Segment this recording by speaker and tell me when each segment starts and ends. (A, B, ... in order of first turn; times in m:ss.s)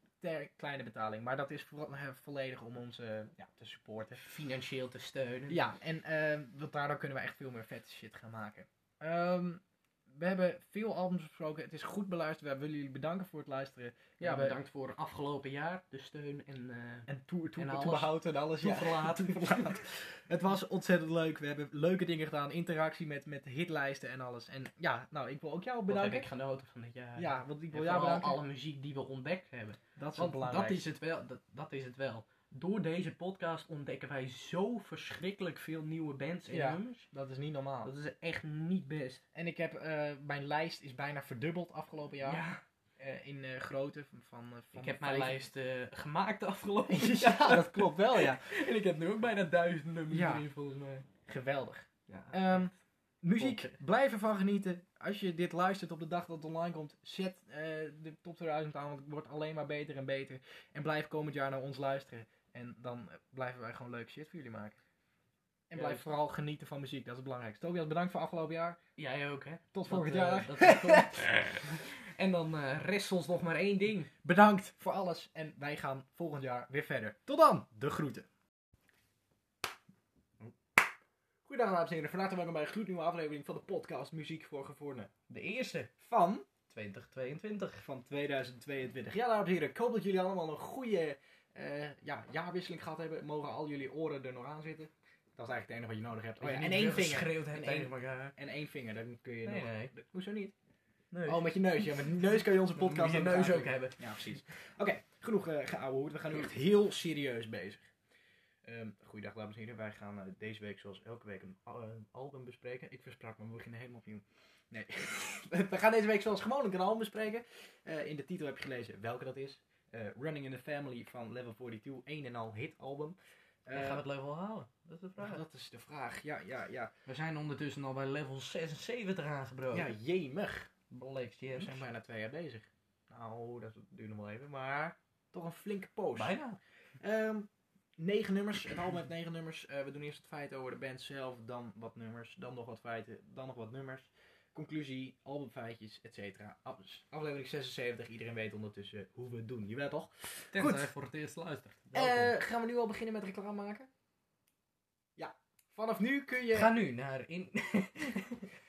0:00.2-0:04.2 A
0:04.2-0:05.6 B
0:05.5-0:14.6 A
0:14.2-0:19.8 B
0:17.1-0:26.3 A
0:25.9-0:37.1 B
0:27.2-0:28.4 A
0:30.0-0:30.8 A
0:36.5-0:37.9 A
0:37.8-0:39.2 B
0:39.3-0:42.4 A
0:42.2-0:42.6 B
0:43.0-0:45.4 A
0:44.7-0:51.1 B
0:46.9-0:48.5 A
0:50.1-0:50.5 A
0:51.3-1:04.8 A
0:52.1-0:52.7 B
0:53.4-0:53.8 B
1:05.7-1:08.8 A
1:05.7-1:06.1 B
1:09.0-1:14.1 B
1:09.7-1:11.3 A
1:14.2-1:18.3 A
1:21.4-1:25.1 A
1:25.3-1:25.9 B
1:26.0-1:26.5 A
1:26.7-1:27.8 B
1:27.8-1:40.6 A
1:36.4-1:38.4 B
1:39.4-1:39.9 B
1:41.1-1:44.4 B
1:41.2-1:47.9 A
1:48.6-2:04.0 A
2:03.7-2:05.4 B
2:05.2-2:06.9 A
2:07.1-2:09.9 B
2:09.7-2:10.7 A
2:10.9-2:11.8 B
2:11.5-2:16.4 A
2:16.1-2:16.6 B
2:17.0-2:30.9 A
2:30.5-2:32.4 B
2:31.9-2:33.9 A
2:35.2-2:36.7 A
2:36.5-2:38.5 B